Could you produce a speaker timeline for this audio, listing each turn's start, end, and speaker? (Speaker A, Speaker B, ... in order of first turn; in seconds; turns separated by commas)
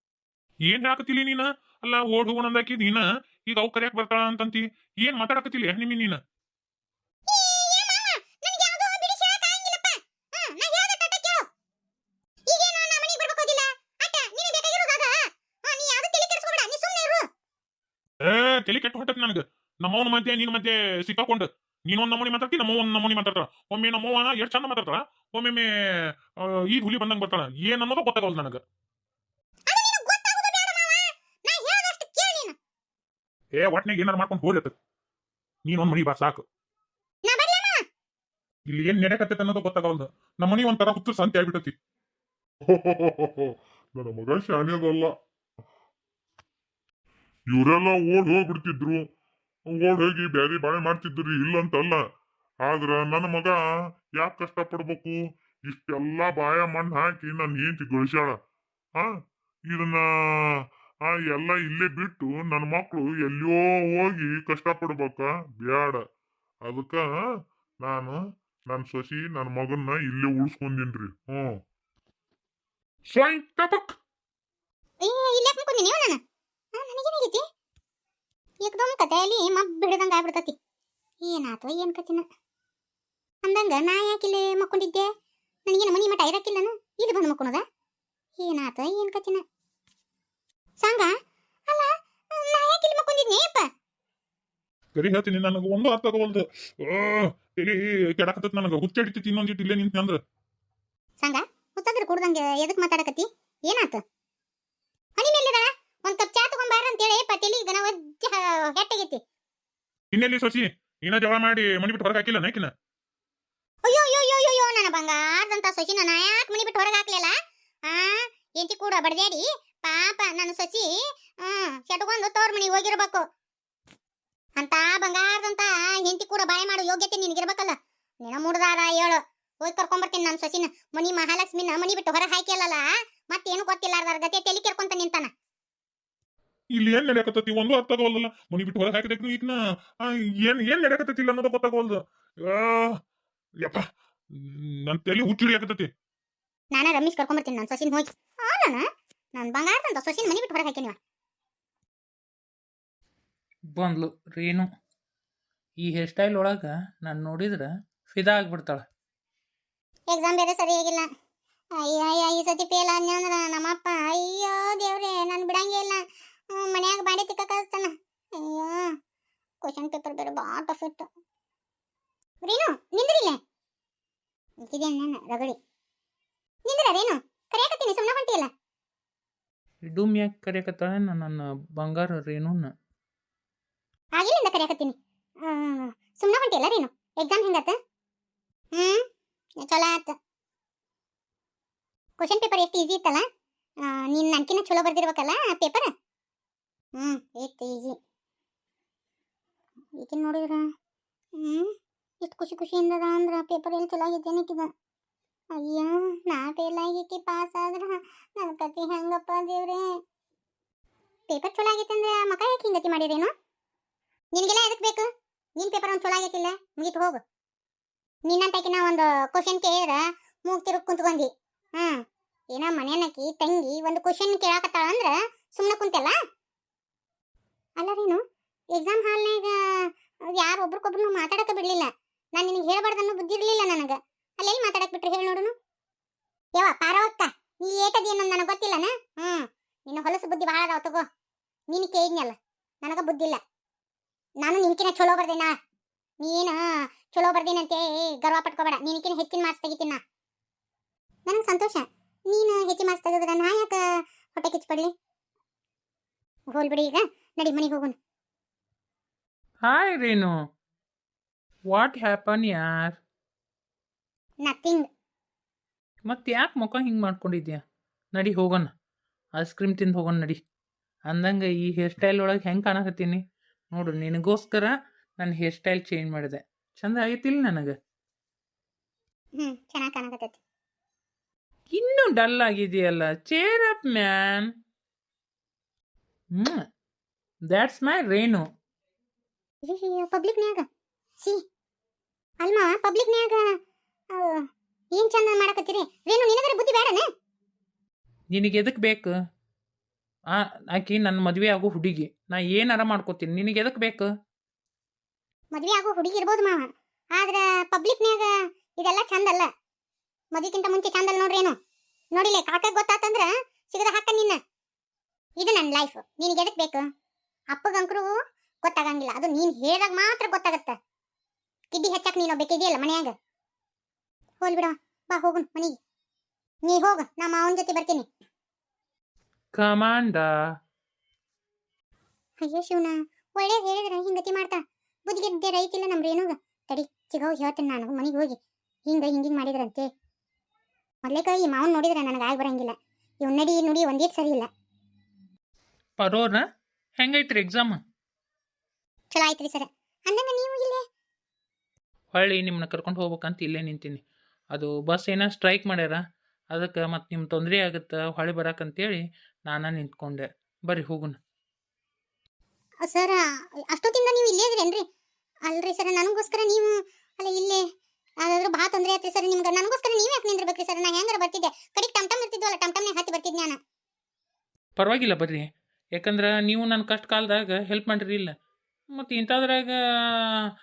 Speaker A: 0.7-6.2, Speaker B: 7.3-11.4, Speaker B: 12.5-17.2, Speaker A: 18.2-25.7, Speaker A: 26.3-28.6, Speaker B: 29.7-32.6, Speaker A: 33.5-34.7, Speaker A: 35.7-36.4, Speaker B: 37.2-37.8, Speaker A: 38.7-41.8, Speaker C: 42.7-45.1, Speaker C: 47.5-49.1, Speaker C: 49.7-52.0, Speaker C: 52.6-53.6, Speaker C: 54.2-58.4, Speaker C: 59.7-60.1, Speaker C: 61.1-66.0, Speaker C: 66.6-67.1, Speaker C: 67.8-68.2, Speaker C: 68.7-71.6, Speaker C: 73.1-74.0, Speaker B: 75.0-76.2, Speaker B: 76.8-77.4, Speaker B: 78.6-80.5, Speaker B: 81.2-82.2, Speaker B: 83.4-85.1, Speaker B: 85.7-87.6, Speaker B: 88.4-89.4, Speaker B: 90.8-91.1, Speaker B: 91.7-93.7, Speaker A: 95.0-100.2, Speaker B: 101.2-104.0, Speaker B: 105.2-109.2, Speaker A: 110.1-112.7, Speaker B: 113.8-117.3, Speaker B: 117.9-120.9, Speaker B: 121.4-123.2, Speaker B: 124.6-135.3, Speaker A: 136.7-143.0, Speaker A: 143.6-145.9, Speaker B: 146.7-151.0, Speaker D: 153.8-154.7, Speaker D: 155.8-158.8, Speaker B: 160.1-161.1, Speaker B: 161.8-168.9, Speaker B: 169.6-171.1, Speaker B: 172.4-173.4, Speaker B: 174.6-175.6, Speaker B: 176.7-178.5, Speaker D: 179.9-182.7, Speaker B: 184.2-187.8, Speaker B: 188.8-189.0, Speaker B: 189.6-190.2, Speaker B: 192.2-193.2, Speaker B: 193.9-195.9, Speaker B: 197.0-198.0, Speaker B: 200.0-200.7, Speaker B: 201.4-204.7, Speaker B: 205.6-209.9, Speaker B: 211.3-213.3, Speaker B: 214.3-215.1, Speaker B: 215.6-217.2, Speaker B: 218.3-222.0, Speaker B: 222.5-226.2, Speaker B: 227.8-228.2, Speaker B: 228.7-229.6, Speaker B: 230.4-235.5, Speaker B: 236.6-241.0, Speaker B: 241.7-243.4, Speaker B: 244.4-245.5, Speaker B: 246.2-250.0, Speaker B: 251.3-253.8, Speaker B: 254.3-254.9, Speaker B: 256.5-258.0, Speaker D: 259.6-260.4, Speaker D: 261.7-263.0, Speaker B: 264.4-264.9, Speaker D: 266.1-267.6, Speaker D: 268.1-268.7, Speaker D: 269.4-270.4, Speaker D: 271.1-273.2, Speaker D: 273.7-277.7, Speaker B: 279.4-280.4, Speaker D: 281.7-284.5, Speaker D: 286.4-286.6, Speaker D: 287.5-288.4, Speaker B: 289.6-290.6, Speaker B: 292.4-293.4, Speaker B: 294.2-294.4, Speaker B: 294.9-297.0, Speaker D: 298.3-299.1, Speaker D: 300.3-304.1, Speaker B: 305.5-309.5, Speaker B: 310.3-311.6, Speaker B: 312.1-314.4, Speaker B: 315.4-316.9, Speaker B: 317.5-318.1, Speaker B: 318.6-320.8, Speaker B: 321.7-323.1, Speaker B: 324.4-325.7, Speaker B: 326.7-328.1, Speaker D: 329.5-330.3, Speaker B: 332.4-338.4, Speaker B: 338.9-339.9, Speaker B: 341.0-344.5, Speaker D: 346.0-346.4, Speaker D: 347.0-347.8, Speaker B: 349.1-350.8, Speaker D: 352.1-354.0, Speaker D: 354.5-356.0, Speaker D: 356.5-361.2, Speaker B: 362.9-363.2, Speaker B: 363.7-364.8, Speaker B: 365.5-367.6, Speaker B: 368.2-373.6, Speaker D: 374.8-378.3, Speaker D: 379.0-380.3